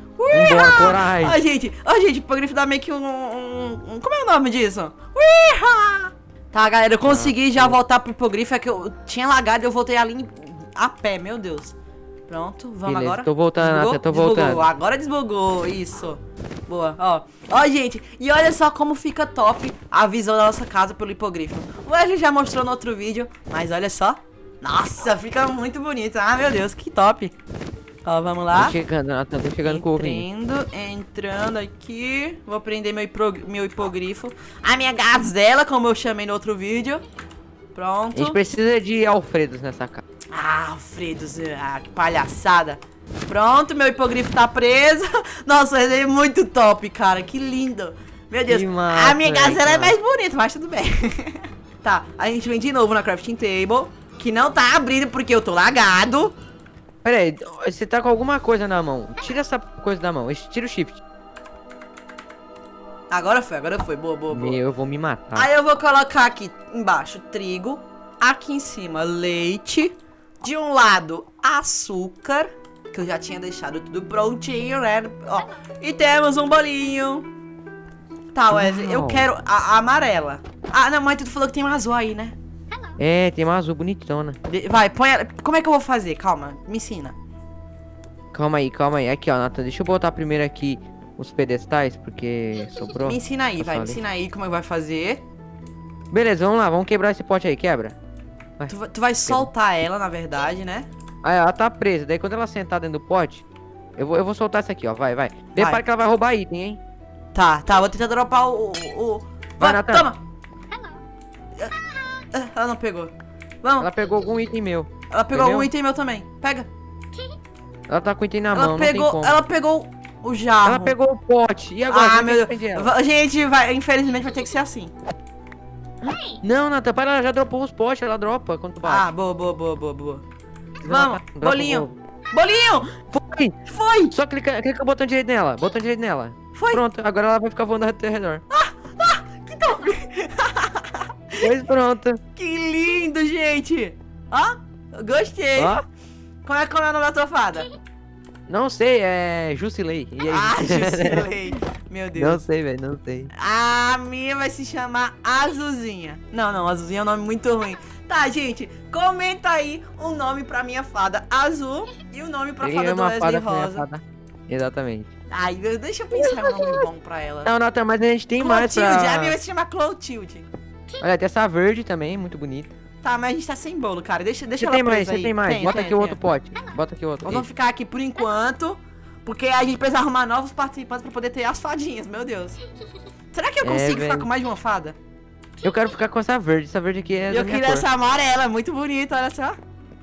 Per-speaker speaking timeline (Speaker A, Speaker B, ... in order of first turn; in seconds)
Speaker A: 0.2-11.8, 12.3-27.4, 28.1-28.8, 29.6-37.0, 37.7-38.4, 40.3-56.4, 63.1-64.6, 65.3-77.3, 78.3-82.4, 84.5-87.2, 93.0-95.2, 98.7-100.9, 105.5-105.8, 107.3-110.2, 112.3-113.9, 115.1-116.7, 118.5-121.0, 121.9-124.9, 128.8-130.2, 130.8-133.0, 133.7-134.2, 136.6-136.8, 138.5-141.5, 142.3-145.8, 146.4-147.7, 150.2-152.4, 153.3-163.8, 165.3-167.5, 168.4-170.5, 173.0-176.2, 177.2-182.6, 183.3-185.0, 187.3-189.6
Speaker B: 0.3-1.4, 7.1-7.8, 12.9-14.7, 28.5-30.3, 38.1-40.0, 48.5-50.0, 57.0-61.0, 64.3-65.5, 78.5-79.3, 83.0-84.4, 88.3-94.0, 96.1-98.0, 101.2-103.5, 104.0-106.8, 109.6-110.1, 113.8-115.7, 117.9-119.4, 120.7-122.9, 126.0-129.1, 130.8-131.9, 133.1-133.6, 134.1-138.4, 141.4-142.2, 145.6-145.8, 148.5-151.3, 152.2-153.3, 162.6-165.1, 167.4-169.4, 171.0-172.7, 174.6-177.4, 183.6-184.3, 185.6-187.8